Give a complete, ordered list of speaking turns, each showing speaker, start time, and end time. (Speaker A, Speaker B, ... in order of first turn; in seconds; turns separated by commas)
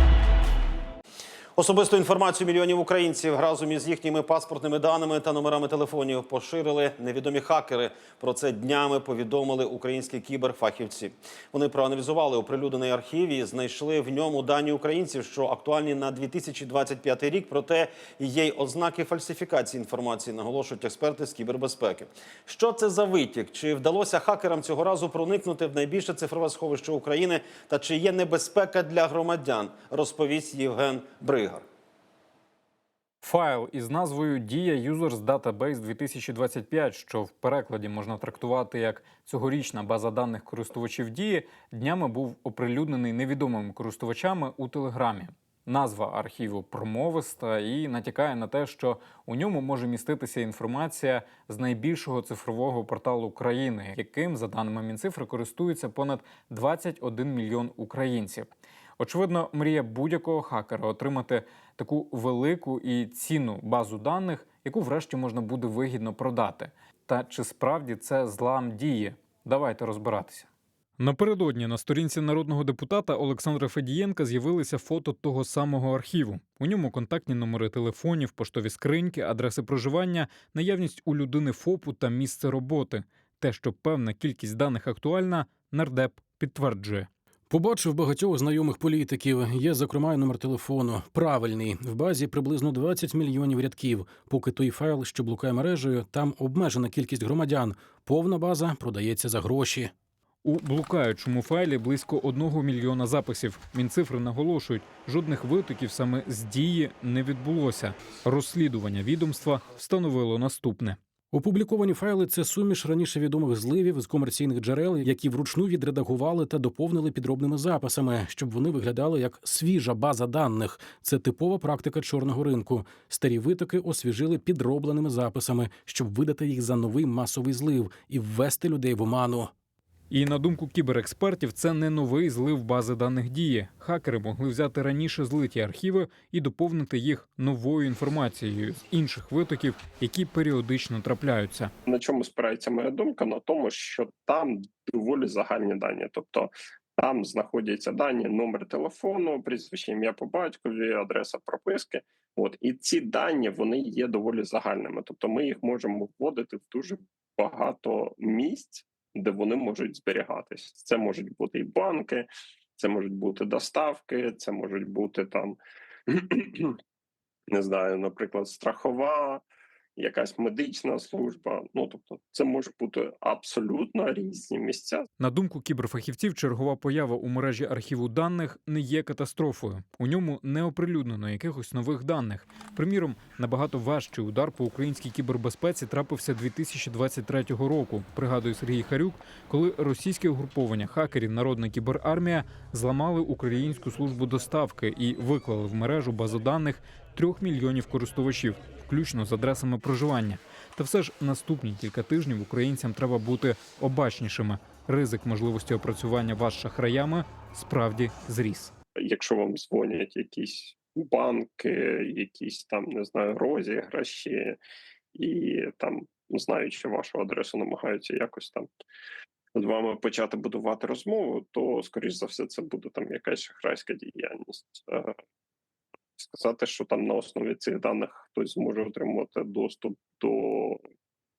Speaker A: 1.6-31.6, Speaker B: 33.2-87.1, Speaker C: 87.5-99.9, Speaker B: 100.4-111.0, Speaker C: 111.3-129.5, Speaker B: 130.1-141.7, Speaker D: 141.9-166.8, Speaker D: 167.5-169.4, Speaker D: 170.0-175.0, Speaker B: 175.2-208.7, Speaker D: 209.0-214.6, Speaker D: 215.2-218.7, Speaker D: 219.6-225.1, Speaker D: 226.2-230.8